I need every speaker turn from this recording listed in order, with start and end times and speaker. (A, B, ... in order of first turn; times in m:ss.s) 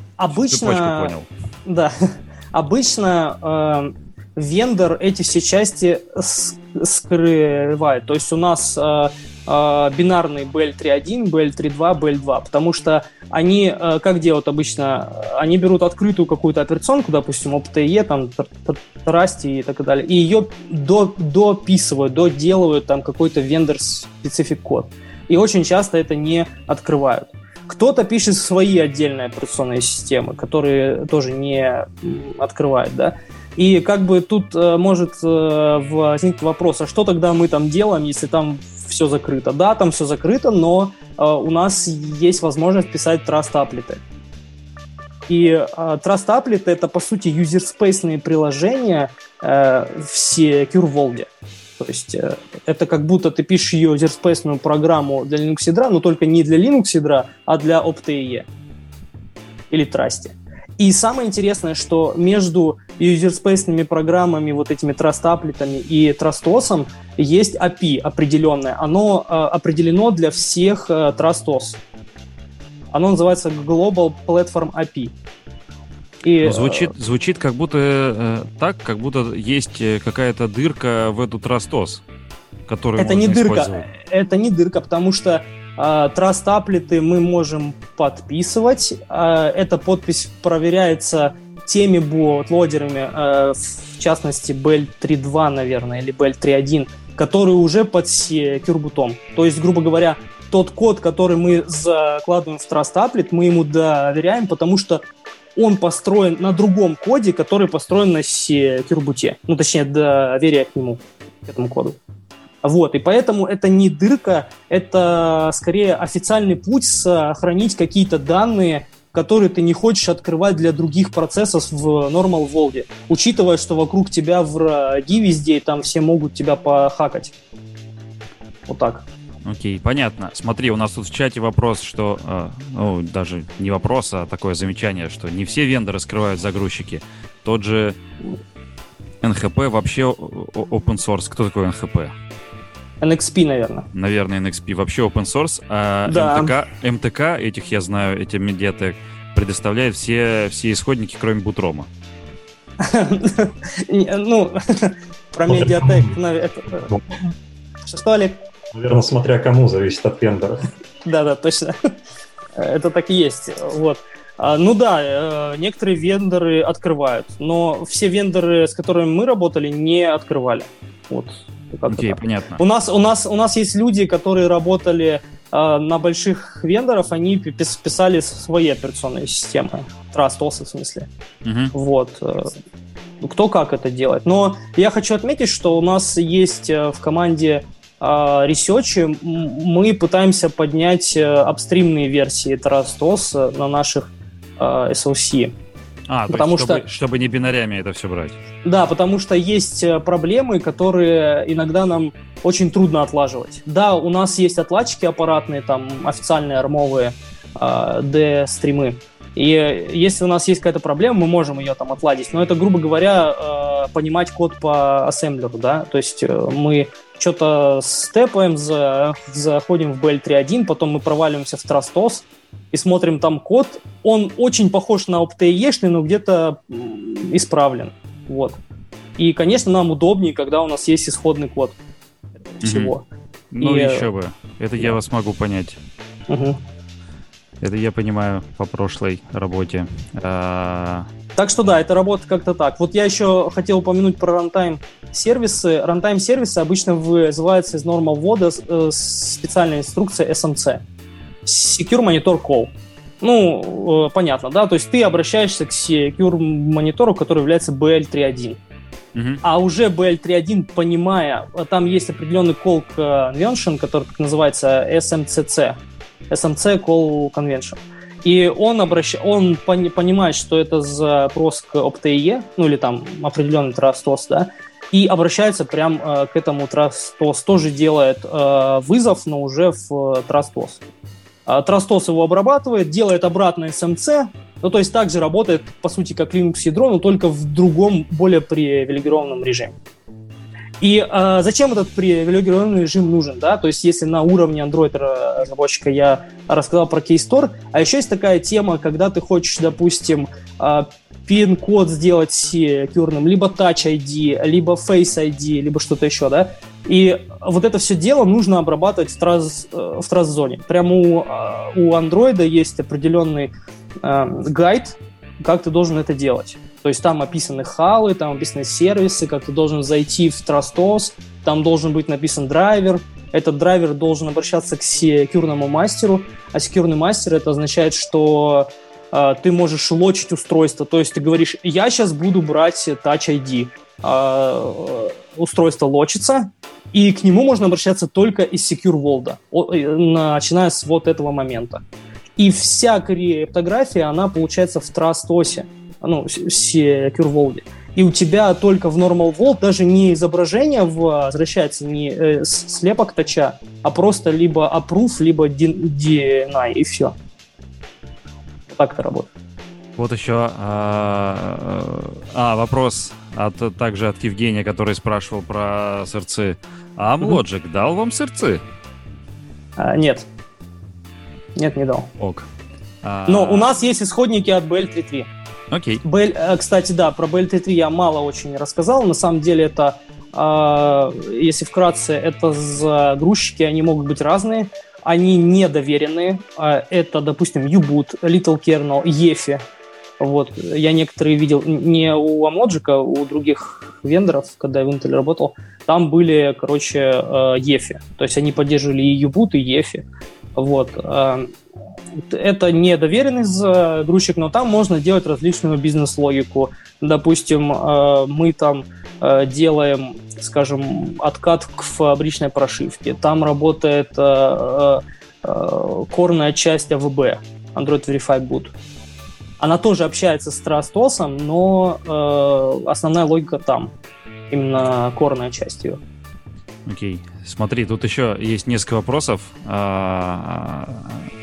0:00.2-0:44.0 A
0:00.3-0:01.3 B
0:45.3-0:58.5 A
0:59.7-1:11.8 A
1:12.9-1:15.1 A
1:16.2-1:16.9 A
1:16.4-1:22.0 B
1:22.7-1:23.9 B
1:23.0-1:45.0 A
1:45.6-1:52.0 A
1:52.6-2:07.3 A
2:08.7-2:09.1 A
2:09.5-2:18.0 B
2:19.2-2:22.1 B
2:23.0-2:23.9 A
2:23.9-2:31.9 B
2:26.1-2:26.6 A
2:32.8-2:36.9 A
2:35.5-2:36.2 C
2:37.9-2:38.4 A
2:38.7-2:40.6 C
2:41.0-2:41.9 A
2:42.6-3:01.1 A
2:51.9-2:52.6 B
3:01.4-3:01.7 B
3:01.7-3:02.6 A
3:03.2-3:15.5 A
3:16.1-3:18.4 B
3:16.3-3:16.8 A
3:18.6-3:48.6 A
3:49.2-3:51.8 A
3:52.6-3:53.0 A
3:52.6-3:52.9 B
3:53.5-3:55.8 B
3:53.6-3:54.1 A
3:56.3-3:56.6 A
3:57.6-4:01.1 B
4:01.4-4:10.8 A
4:11.5-4:18.6 A
4:19.1-4:19.4 B
4:19.4-4:40.8 A
4:41.5-4:49.8 A
4:50.8-5:41.8 A
5:42.4-5:57.2 A
5:58.7-5:59.3 A
6:00.0-6:08.6 B
6:09.8-6:10.3 A
6:11.6-6:12.1 A
6:12.2-6:12.5 B
6:13.0-6:13.7 B
6:13.3-6:15.3 A
6:15.7-6:16.0 B
6:16.0-6:29.6 A
6:30.2-6:41.5 A
6:42.2-6:58.7 A
6:59.6-7:03.9 A
7:04.5-7:06.0 A
7:06.9-7:11.3 B